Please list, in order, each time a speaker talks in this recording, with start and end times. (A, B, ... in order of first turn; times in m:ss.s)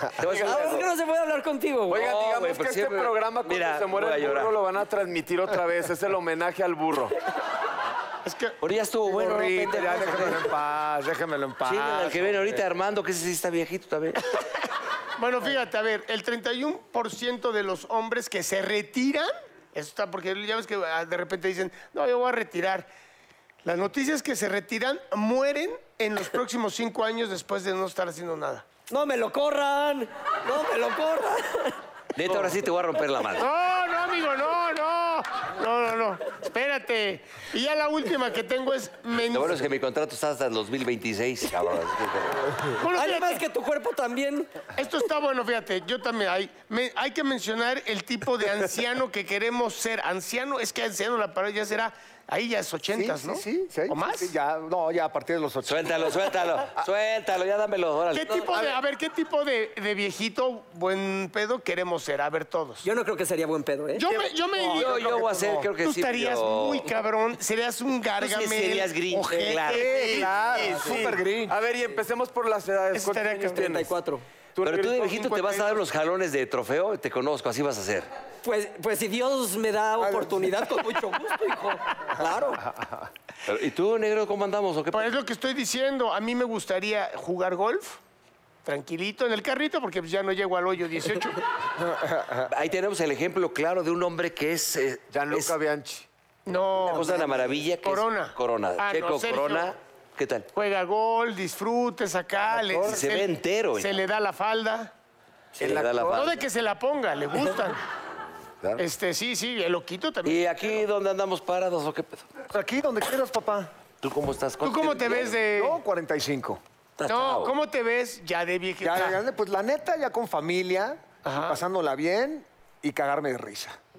0:00.1-0:00.9 A
0:00.2-0:00.7 B
0:00.3-0:02.1 C
0:01.9-0:07.1 B
0:01.9-0:04.5 A
0:08.2-0:08.6 D
0:08.6-0:10.5 A
0:09.1-0:12.5 E
0:11.6-0:14.2 A
0:15.2-0:22.9 D
0:23.6-0:28.6 D
0:28.9-0:31.8 C
0:32.1-0:33.5 A
0:33.4-0:39.6 D
0:39.3-0:42.6 A
0:42.8-0:43.4 D
0:42.9-0:44.5 C
0:44.8-0:54.3 D
0:52.9-0:56.8 E
0:55.6-0:58.8 A
0:58.1-1:02.8 D
1:02.8-1:04.0 C
1:03.9-1:05.2 D
1:04.1-1:05.7 E
1:04.7-1:06.9 A
1:05.8-1:10.3 D
1:08.2-1:10.3 A
1:09.6-1:11.5 E
1:10.0-1:13.9 B
1:12.9-1:13.6 D
1:13.5-1:14.2 C
1:14.5-1:15.5 B
1:14.6-1:18.1 A
1:15.1-1:15.8 D
1:18.4-1:22.6 C
1:20.0-1:20.5 E
1:23.4-1:25.1 A
1:24.9-1:28.0 D
1:28.6-1:31.4 D
1:31.9-1:32.4 E
1:32.4-1:35.5 A
1:35.1-1:36.0 B
1:36.4-1:39.7 D
1:36.8-1:40.5 A
1:40.5-1:44.9 D
1:42.5-1:43.0 E
1:42.8-1:44.0 A
1:45.6-1:46.4 A
1:45.6-1:46.2 E
1:46.1-1:47.8 D
1:48.8-1:50.7 D
1:50.2-1:52.3 A
1:52.5-1:53.7 E
1:54.0-1:55.4 A
1:54.6-1:55.8 D
1:55.5-1:56.6 E
1:57.0-1:57.5 A
1:57.1-1:59.2 D
1:58.8-2:03.8 E
2:01.2-2:01.6 D